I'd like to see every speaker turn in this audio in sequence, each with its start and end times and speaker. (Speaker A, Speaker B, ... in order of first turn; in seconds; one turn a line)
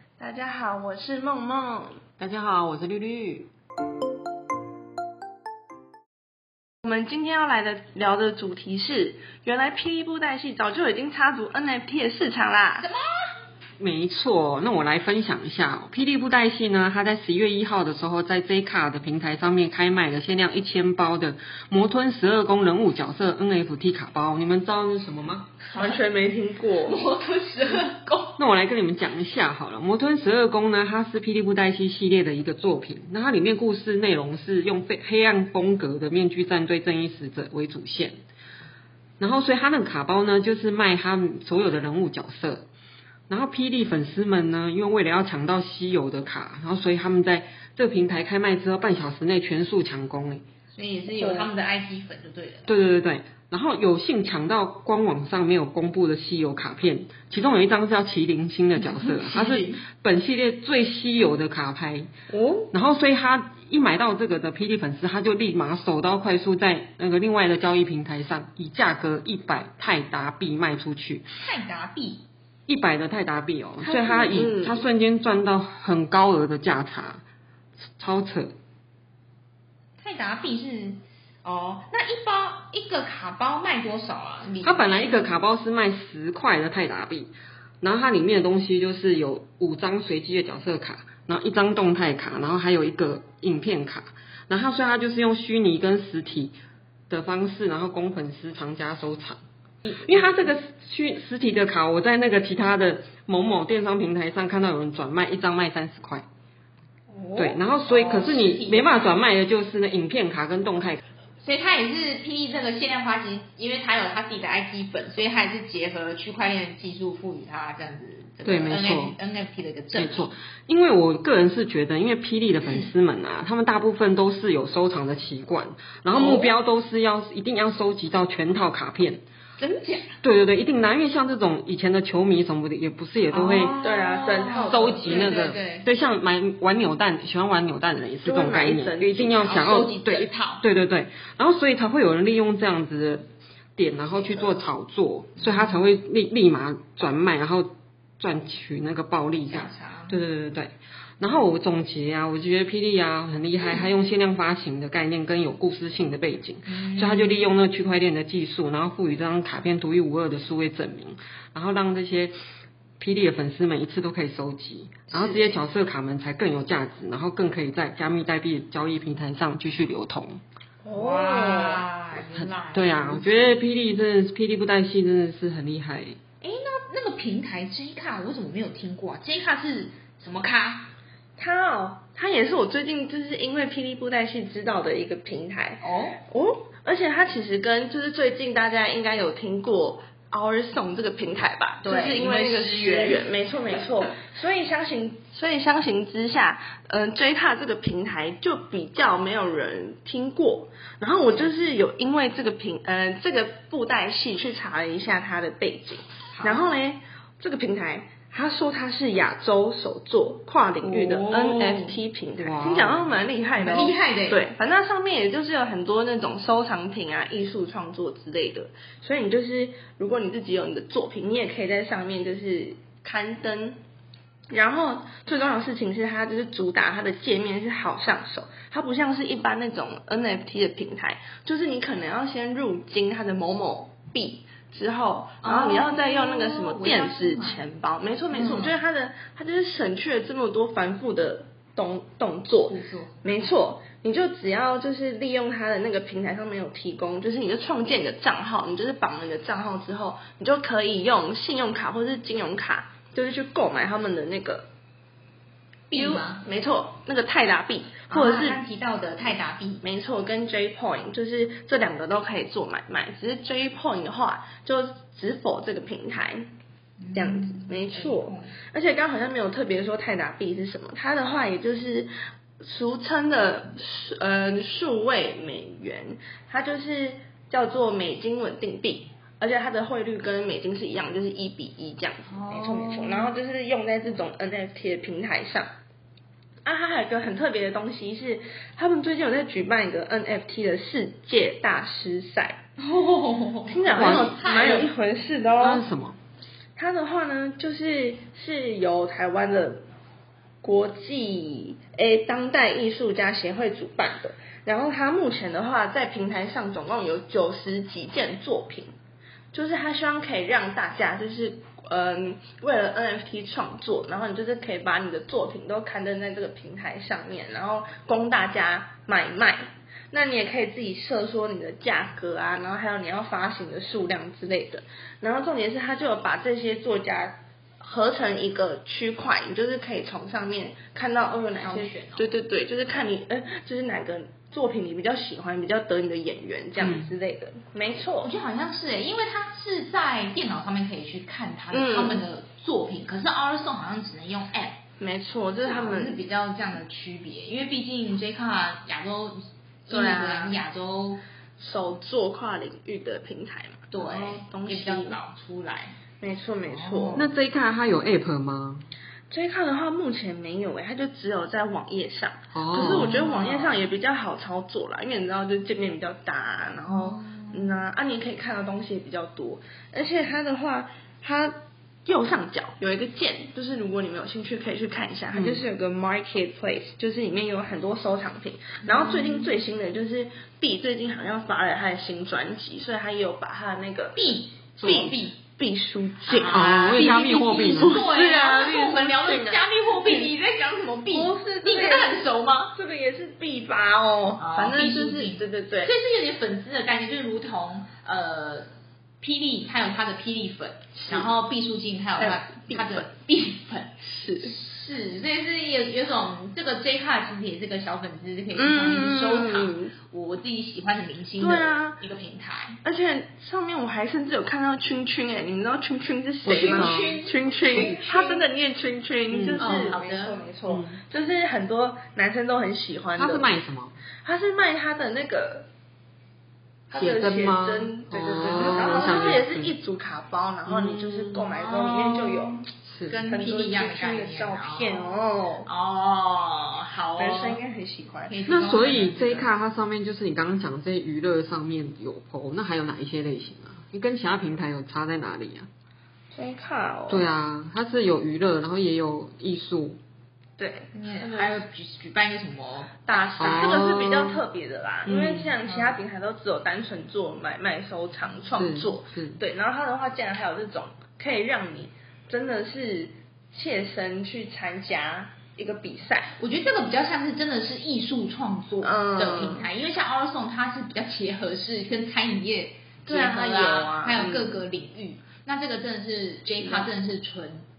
Speaker A: 0.2-2.0
Speaker B: 2.2-3.5
Speaker A: 6.8-12.9
Speaker C: 12.8-13.3
Speaker B: 13.8-25.5
Speaker C: 25.7-26.0
Speaker A: 25.7-27.0
Speaker C: 26.8-28.4
Speaker B: 28.4-38.2
Speaker B: 39.2-42.7
Speaker B: 43.3-50.4
Speaker C: 50.8-52.7
Speaker A: 51.1-51.5
Speaker B: 52.7-62.1
Speaker C: 58.8-59.8
Speaker A: 62.3-62.7
Speaker B: 62.7-71.3
Speaker C: 71.4-72.2
Speaker B: 72.7-77.2
Speaker A: 73.8-74.8
Speaker B: 78.0-78.5
Speaker C: 80.0-85.1
Speaker B: 84.6-96.5
Speaker B: 97.1-106.2
Speaker C: 107.1-109.1
Speaker B: 107.4-111.0
Speaker C: 111.4-120.3
Speaker B: 118.5-119.2
Speaker B: 119.9-129.2
Speaker C: 122.6-122.9
Speaker C: 126.1-126.5
Speaker C: 129.6-130.2
Speaker B: 130.2-133.8
Speaker C: 133.3-135.9
Speaker A: 133.8-135.3
Speaker B: 134.6-143.3
Speaker A: 138.2-139.5
Speaker C: 139.4-140.6
Speaker B: 143.8-162.3
Speaker C: 145.4-145.8
Speaker C: 149.5-150.2
Speaker C: 156.7-157.4
Speaker B: 163.0-170.4
Speaker C: 165.1-165.6
Speaker C: 170.9-173.6
Speaker A: 170.9-171.8
Speaker B: 172.4-176.2
Speaker C: 176.4-180.9
Speaker A: 181.4-223.8
Speaker C: 185.8-186.2
Speaker C: 191.8-193.9
Speaker C: 206.3-206.6
Speaker B: 210.8-213.2
Speaker C: 213.6-214.4
Speaker A: 224.5-254.7
Speaker C: 235.4-237.6
Speaker C: 238.3-238.8
Speaker C: 242.6-243.1
Speaker C: 255.9-256.4
Speaker A: 255.9-258.6
Speaker C: 258.1-259.8
Speaker A: 259.8-266.5
Speaker C: 267.0-268.5
Speaker A: 267.1-272.1
Speaker A: 272.6-285.7
Speaker C: 282.3-283.3
Speaker A: 286.6-292.6
Speaker C: 292.8-294.9
Speaker A: 293.7-295.9
Speaker B: 293.9-294.4
Speaker B: 295.6-296.2
Speaker A: 296.8-299.8
Speaker A: 300.6-308.9
Speaker A: 309.5-338.3
Speaker C: 331.5-332.4
Speaker B: 336.8-337.1
Speaker C: 338.2-344.8
Speaker A: 341.7-342.2
Speaker A: 345.0-346.2
Speaker C: 345.6-351.2
Speaker A: 349.9-350.6
Speaker A: 351.6-355.2
Speaker C: 353.9-355.9
Speaker A: 356.2-357.3
Speaker C: 356.7-357.3
Speaker B: 357.1-358.9
Speaker A: 359.3-390.3
Speaker B: 362.5-363.2
Speaker C: 362.8-363.9
Speaker C: 366.9-367.8
Speaker B: 375.3-375.6
Speaker C: 378.8-379.5
Speaker C: 384.1-385.4
Speaker C: 386.3-392.7
Speaker B: 386.4-388.0
Speaker A: 391.1-392.2
Speaker A: 392.7-395.9
Speaker C: 394.4-398.7
Speaker C: 399.2-412.8
Speaker A: 401.0-401.3
Speaker A: 402.2-403.1
Speaker A: 404.1-404.5
Speaker A: 408.6-409.9
Speaker A: 411.4-412.0
Speaker A: 412.8-423.5
Speaker B: 416.4-417.2
Speaker C: 416.4-418.5
Speaker B: 419.3-419.9
Speaker C: 419.6-420.5
Speaker B: 420.7-421.0
Speaker B: 423.2-424.0
Speaker A: 424.2-425.7
Speaker A: 426.9-432.7
Speaker B: 426.9-429.7
Speaker C: 428.8-429.3
Speaker B: 430.7-431.4
Speaker C: 431.5-435.1
Speaker B: 432.9-433.2
Speaker A: 433.3-435.7
Speaker C: 435.6-437.6
Speaker A: 437.2-438.4
Speaker C: 438.3-439.5
Speaker B: 438.5-445.7
Speaker A: 446.3-447.3
Speaker B: 447.1-450.0
Speaker A: 450.6-451.6
Speaker C: 450.9-453.0
Speaker A: 453.1-466.3
Speaker B: 453.4-454.4
Speaker B: 455.1-455.5
Speaker C: 455.6-456.0
Speaker B: 458.6-459.4
Speaker C: 466.4-477.6
Speaker A: 468.8-469.7
Speaker A: 473.1-474.6
Speaker A: 476.6-476.9